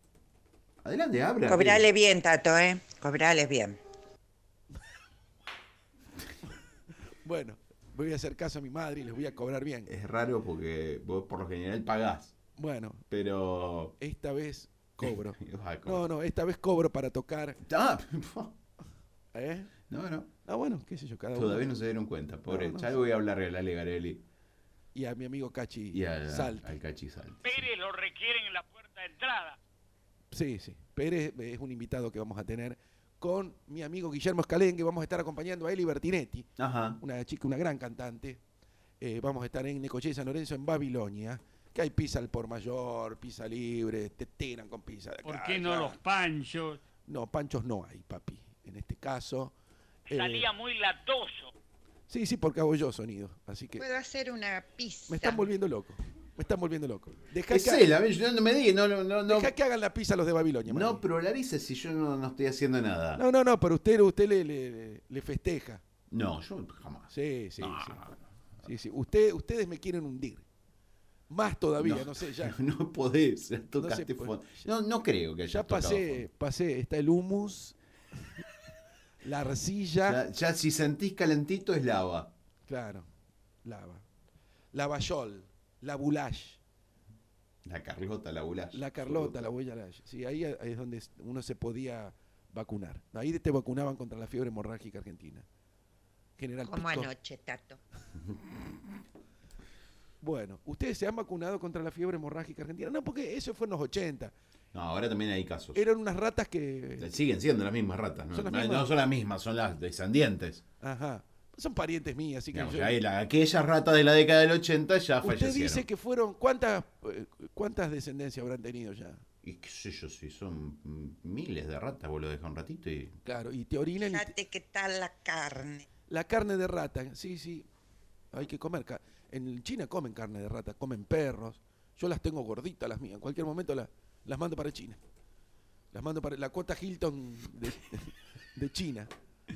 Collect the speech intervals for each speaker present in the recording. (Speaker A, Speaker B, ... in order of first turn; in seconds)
Speaker A: 0.8-1.9, 9.9-12.3, 13.1-13.9, 15.4-16.1, 17.6-18.5, 19.9-20.3, 21.3-24.2, 25.9-27.7, 36.6-37.0, 57.5-59.5, 60.6-63.2, 66.1-68.2, 71.8-76.2, 80.0-82.3, 87.6-89.5, 104.7-105.8, 107.0-110.6, 112.5-115.8, 119.4-123.1
Speaker B: 1.4-3.8, 53.8-55.5, 96.6-97.8, 124.0-125.9
Speaker C: 7.2-9.9, 12.6-13.0, 14.0-17.6, 19.3-19.7, 20.4-21.7, 22.5-23.0, 24.9-26.7, 30.3-38.4, 39.0-46.0, 47.0-49.5, 50.1-50.5, 52.1-53.9, 55.1-57.9, 59.3-61.0, 63.1-65.8, 67.1-68.0, 68.6-70.5, 71.3-72.5, 73.8-74.7, 75.5-77.8, 79.2-80.2, 82.7-83.1, 83.6-84.0, 84.7-86.6, 88.7-95.5, 96.4-97.1, 100.2-104.3, 105.7-107.2, 108.3-108.9, 110.8-113.0, 115.2-119.2, 123.2-124.4, 126.1-127.7, 128.3-135.0, 135.9-139.1
Speaker D: 27.4-29.6, 45.2-46.8, 50.1-51.5